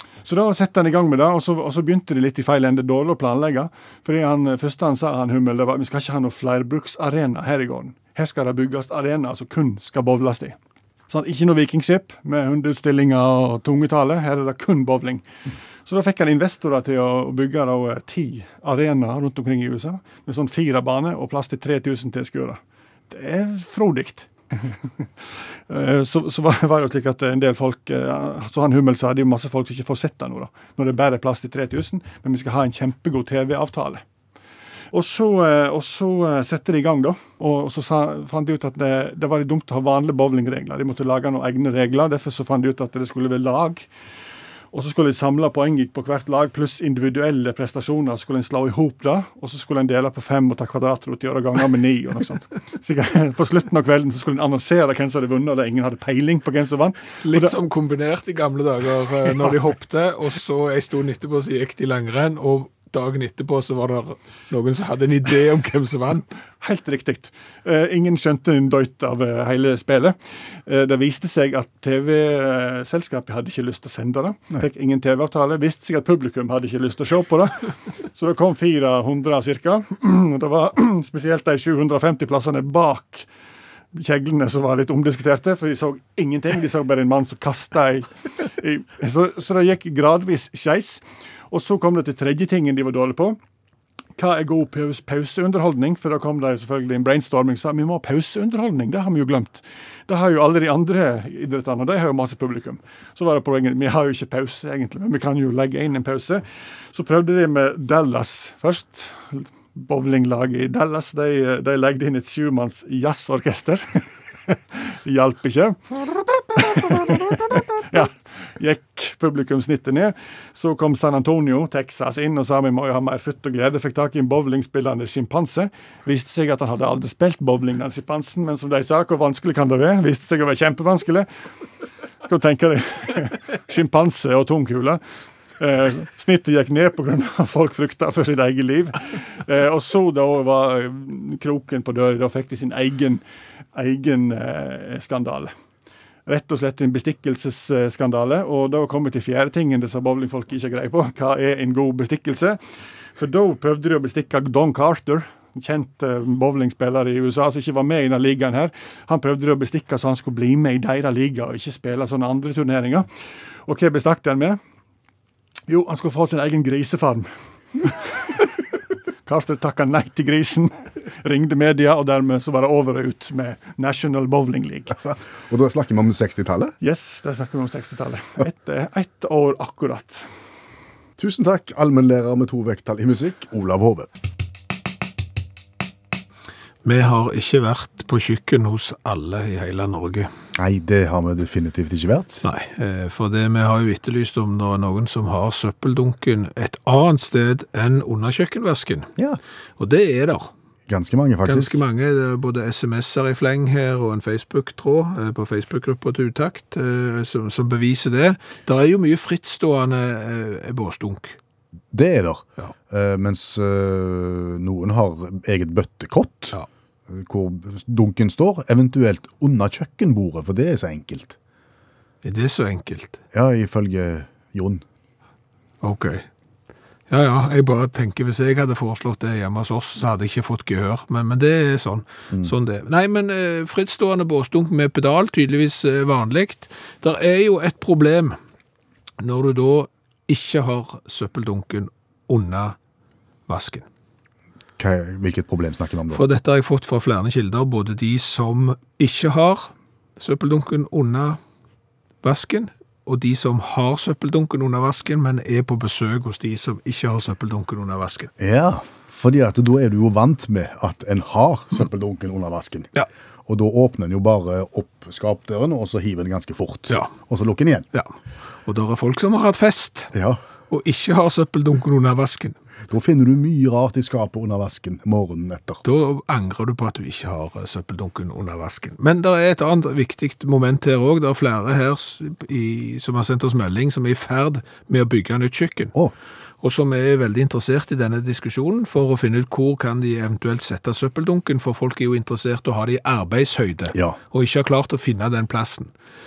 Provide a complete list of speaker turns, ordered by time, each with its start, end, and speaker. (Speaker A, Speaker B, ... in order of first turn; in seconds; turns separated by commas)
Speaker A: 0.2-10.6, Speaker A: 11.1-15.2, Speaker A: 15.8-24.7, Speaker A: 25.7-34.0, Speaker A: 34.9-43.9, Speaker A: 44.7-57.5, Speaker B: 57.2-66.2, Speaker A: 66.6-83.3, Speaker A: 83.9-93.4, Speaker A: 94.2-131.3, Speaker A: 132.2-135.0, Speaker A: 135.6-143.2, Speaker A: 143.7-145.5, Speaker A: 146.2-152.6, Speaker A: 153.2-163.1, Speaker A: 163.7-164.6, Speaker A: 165.7-167.3, Speaker A: 167.8-168.4, Speaker A: 169.2-175.0, Speaker C: 175.1-176.8, Speaker A: 176.8-180.2, Speaker C: 181.2-184.1, Speaker B: 186.8-190.3, Speaker C: 190.6-192.4, Speaker B: 192.4-199.1, Speaker B: 199.8-200.5, Speaker C: 200.9-201.8, Speaker B: 201.4-211.4, Speaker C: 211.9-216.6, Speaker C: 217.1-221.4, Speaker B: 222.2-223.2, Speaker C: 223.3-224.8, Speaker B: 225.8-226.2, Speaker B: 227.1-238.4, Speaker B: 239.2-242.8, Speaker B: 243.5-243.8, Speaker C: 244.8-246.2, Speaker B: 246.1-251.4, Speaker B: 252.2-258.3, Speaker C: 258.4-262.9, Speaker C: 263.4-267.9, Speaker B: 268.6-270.1, Speaker C: 270.1-270.4, Speaker B: 270.7-272.6, Speaker C: 272.9-275.8, Speaker B: 275.8-285.9, Speaker B: 286.6-295.9